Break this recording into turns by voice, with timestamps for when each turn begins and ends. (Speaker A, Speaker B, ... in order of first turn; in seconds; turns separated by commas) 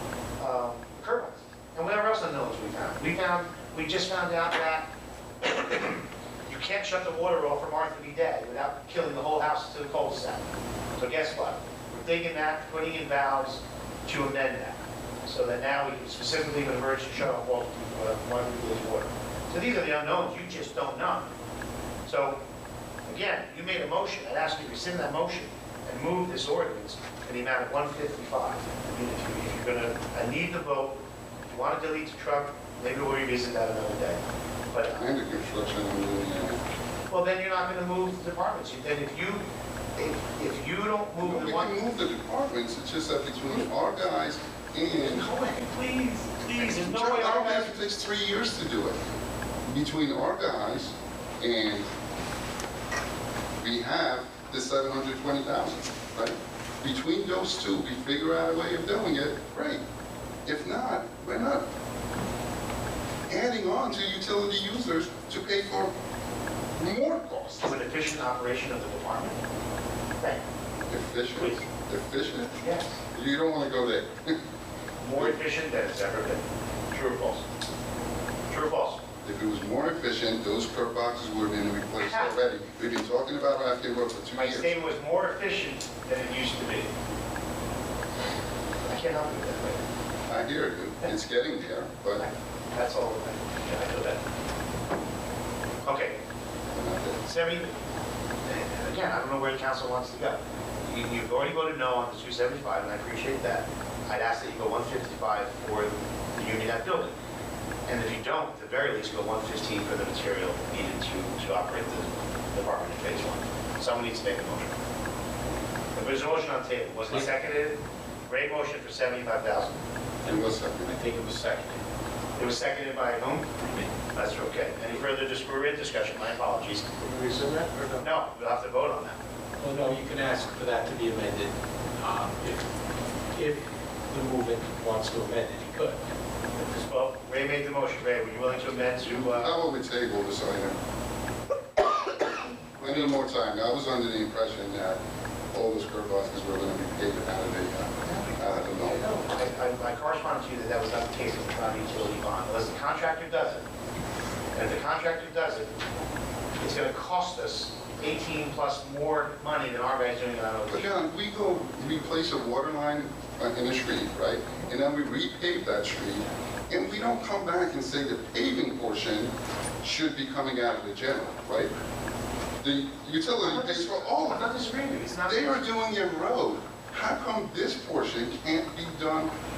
Speaker A: 0.4-4.8, Speaker A: 5.4-21.3, Speaker A: 22.1-22.4, Speaker A: 23.1-35.1, Speaker B: 35.0-36.6, Speaker A: 37.1-39.4, Speaker A: 40.0-41.8, Speaker B: 41.2-45.3, Speaker A: 45.0-47.7, Speaker B: 46.5-49.0, Speaker B: 49.6-51.9, Speaker B: 53.6-59.8, Speaker B: 60.4-61.6, Speaker B: 63.3-65.9, Speaker B: 66.8-67.7, Speaker A: 67.6-69.4, Speaker A: 70.2-70.4, Speaker B: 70.9-72.6, Speaker A: 71.4-71.6, Speaker A: 72.6-73.0, Speaker B: 73.1-74.4, Speaker A: 75.0-77.5, Speaker A: 78.5-79.0, Speaker B: 79.2-84.7, Speaker A: 82.0-82.3, Speaker A: 84.3-86.9, Speaker A: 88.9-89.8, Speaker B: 90.3-92.2, Speaker A: 92.2-94.2, Speaker A: 95.8-96.2, Speaker B: 96.7-97.2, Speaker A: 97.2-97.8, Speaker A: 98.5-107.2, Speaker A: 107.8-114.8, Speaker A: 115.9-119.8, Speaker C: 120.2-121.8, Speaker B: 120.2-120.9, Speaker A: 122.3-127.0, Speaker C: 127.1-127.9, Speaker A: 128.0-129.2, Speaker C: 129.6-132.7, Speaker C: 133.3-136.0, Speaker A: 136.6-139.6, Speaker B: 139.1-140.8, Speaker A: 142.8-143.2, Speaker B: 142.8-145.0, Speaker B: 145.5-149.0, Speaker A: 148.0-153.6, Speaker A: 154.5-155.8, Speaker A: 156.6-161.0, Speaker B: 160.7-169.3, Speaker B: 169.8-171.7, Speaker B: 172.6-174.5, Speaker A: 173.4-175.7, Speaker B: 175.2-179.3